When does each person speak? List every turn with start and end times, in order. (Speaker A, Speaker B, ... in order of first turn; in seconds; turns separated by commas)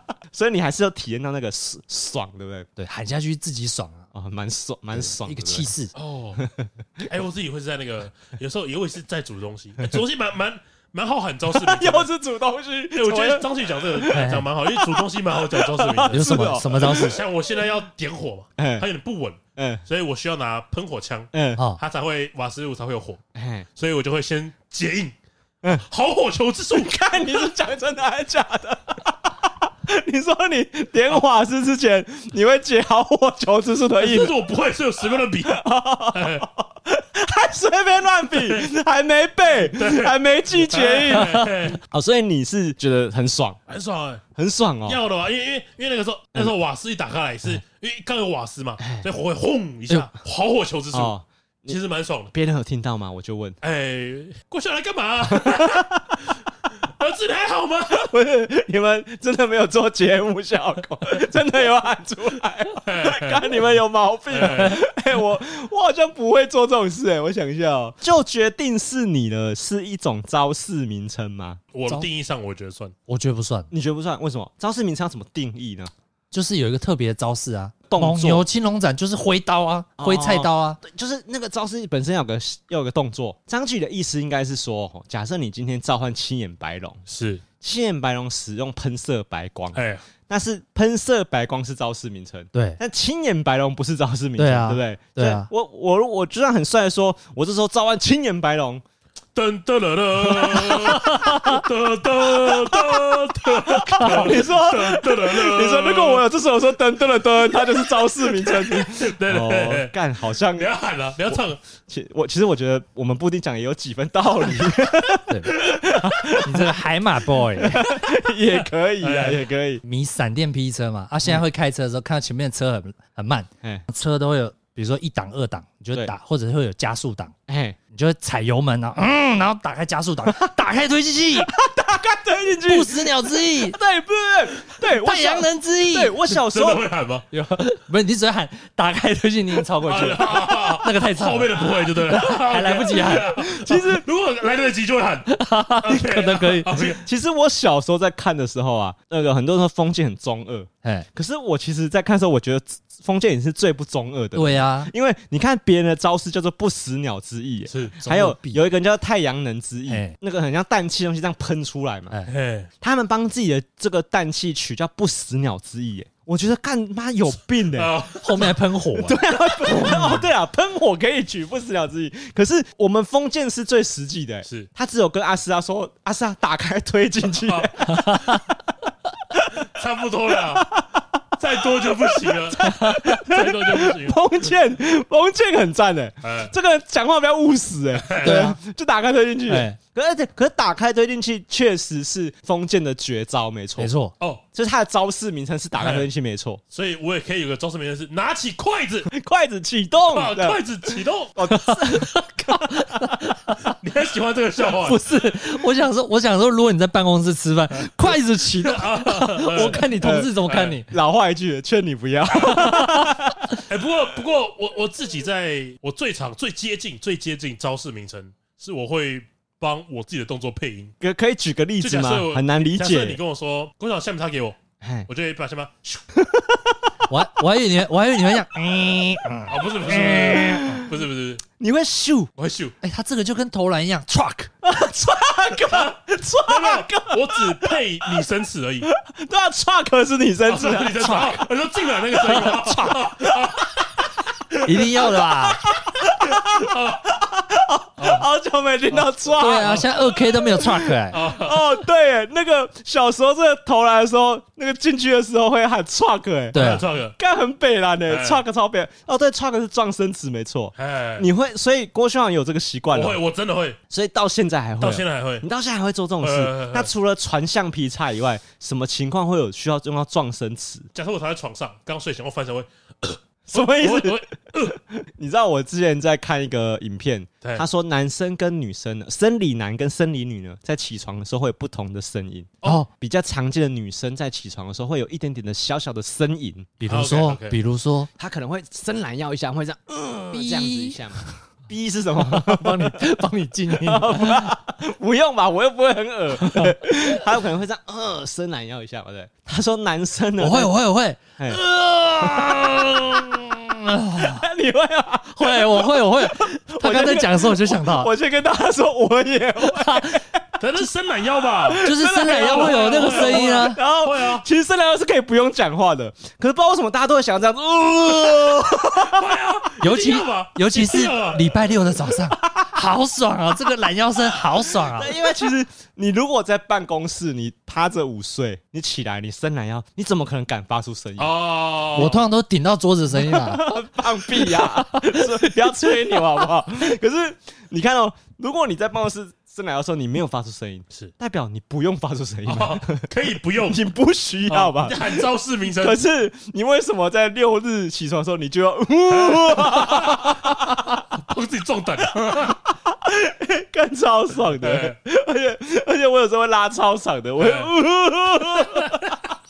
Speaker A: 0.3-2.7, Speaker B: 2.8-4.0, Speaker A: 4.1-5.7, Speaker B: 4.9-5.9, Speaker C: 5.9-6.4, Speaker A: 6.4-7.0, Speaker C: 7.0-12.1, Speaker A: 11.5-17.1, Speaker C: 12.9-23.2, Speaker B: 14.1-14.5, Speaker B: 16.1-17.2, Speaker A: 18.6-18.9, Speaker A: 19.6-19.8, Speaker A: 21.3-21.6, Speaker A: 23.4-23.7, Speaker C: 23.8-25.1, Speaker C: 25.7-27.5, Speaker A: 26.7-34.3, Speaker C: 34.0-35.6, Speaker A: 35.5-43.6, Speaker C: 36.1-36.4, Speaker C: 38.4-38.6, Speaker C: 39.7-41.8, Speaker C: 43.7-44.2, Speaker A: 44.4-45.0, Speaker C: 44.9-51.1, Speaker A: 48.8-49.1, Speaker A: 50.9-51.8, Speaker C: 51.7-52.3, Speaker A: 52.3-53.6, Speaker C: 53.6-56.0, Speaker A: 55.4-56.1, Speaker C: 56.9-58.1, Speaker A: 57.9-71.6, Speaker C: 62.8-63.4, Speaker C: 64.3-64.8, Speaker C: 71.7-72.9, Speaker B: 73.1-73.7, Speaker A: 73.7-75.9, Speaker B: 76.3-80.8, Speaker A: 77.9-78.5, Speaker A: 80.0-87.0, Speaker C: 87.1-87.4, Speaker A: 87.6-98.8, Speaker C: 89.7-90.0, Speaker B: 92.5-92.8, Speaker B: 94.4-95.5, Speaker C: 99.3-106.2, Speaker B: 100.7-101.6, Speaker A: 102.4-102.8, Speaker A: 103.4-110.7, Speaker C: 107.6-109.9, Speaker C: 110.5-111.6, Speaker A: 111.3-116.7, Speaker B: 115.3-115.5, Speaker B: 116.4-117.9, Speaker A: 117.6-119.8, Speaker C: 118.5-119.5, Speaker B: 119.8-127.3, Speaker A: 127.5-127.8, Speaker B: 127.9-131.5, Speaker A: 131.4-136.8, Speaker B: 132.7-133.8, Speaker B: 134.8-136.3, Speaker C: 136.5-137.2, Speaker B: 137.3-143.4, Speaker C: 139.8-147.0, Speaker A: 143.5-144.0, Speaker B: 145.3-146.7, Speaker A: 146.8-162.1, Speaker B: 154.3-154.9, Speaker C: 157.7-157.9, Speaker B: 158.0-158.6, Speaker B: 159.9-160.2, Speaker C: 162.3-162.7, Speaker A: 162.8-167.9, Speaker C: 167.7-168.5, Speaker B: 168.2-170.3, Speaker A: 168.9-178.4, Speaker C: 177.3-177.7, Speaker B: 177.9-178.4, Speaker C: 179.6-180.7, Speaker A: 180.3-181.0, Speaker C: 181.4-184.5, Speaker A: 181.7-193.9, Speaker C: 186.2-186.5, Speaker C: 187.9-188.5, Speaker B: 188.2-188.6, Speaker B: 189.5-189.8, Speaker B: 193.8-194.1, Speaker A: 194.5-196.6, Speaker C: 195.8-196.1, Speaker C: 196.7-199.1, Speaker A: 199.1-200.6, Speaker C: 200.1-201.7, Speaker A: 201.3-202.7, Speaker B: 202.5-203.7, Speaker C: 203.8-205.0, Speaker B: 204.8-210.9, Speaker C: 208.5-209.8, Speaker A: 209.6-210.3, Speaker C: 210.4-210.8, Speaker A: 210.9-213.5, Speaker B: 212.3-213.3, Speaker C: 213.6-220.9, Speaker A: 221.0-223.2, Speaker C: 221.8-226.0, Speaker A: 224.8-225.1, Speaker A: 226.1-226.9, Speaker B: 227.1-230.8, Speaker C: 229.5-231.4, Speaker A: 229.9-230.8, Speaker A: 231.6-232.3, Speaker C: 232.4-232.7, Speaker B: 232.8-234.5, Speaker A: 234.6-238.2, Speaker C: 235.6-238.9, Speaker A: 238.8-241.4, Speaker C: 240.4-245.0, Speaker B: 241.0-241.4, Speaker A: 242.1-243.7, Speaker B: 242.4-242.9, Speaker B: 244.6-245.6, Speaker A: 245.7-250.2, Speaker C: 246.2-247.0, Speaker C: 248.0-248.2, Speaker C: 248.9-249.9, Speaker B: 249.4-251.2, Speaker C: 251.1-251.8, Speaker A: 251.2-263.2, Speaker B: 256.5-256.8, Speaker C: 256.5-257.1, Speaker C: 258.1-258.4, Speaker C: 260.8-261.3, Speaker C: 262.9-263.8, Speaker A: 263.9-270.9, Speaker C: 264.8-265.4, Speaker C: 266.2-266.9, Speaker C: 270.9-274.8, Speaker A: 273.4-286.7, Speaker B: 282.6-282.9, Speaker B: 286.8-288.1, Speaker C: 286.9-287.6, Speaker A: 288.2-293.0, Speaker B: 290.3-291.4, Speaker B: 292.2-294.6, Speaker A: 293.8-300.7, Speaker B: 296.4-297.1, Speaker B: 300.4-304.5, Speaker A: 302.2-302.6, Speaker A: 304.2-310.4, Speaker B: 305.3-308.1, Speaker B: 309.6-310.2, Speaker C: 310.6-311.8, Speaker A: 311.6-319.2, Speaker B: 311.8-313.8, Speaker C: 312.4-314.4, Speaker C: 319.0-321.6, Speaker B: 319.8-325.2, Speaker A: 324.8-331.3, Speaker C: 331.2-332.2, Speaker B: 331.9-333.8, Speaker A: 333.2-343.1, Speaker B: 334.3-336.4, Speaker C: 342.4-343.8, Speaker A: 343.6-351.0, Speaker C: 344.5-346.0, Speaker C: 349.1-350.6, Speaker C: 351.1-352.6, Speaker A: 352.2-358.9, Speaker C: 354.6-354.9, Speaker C: 357.4-357.7, Speaker C: 358.6-359.1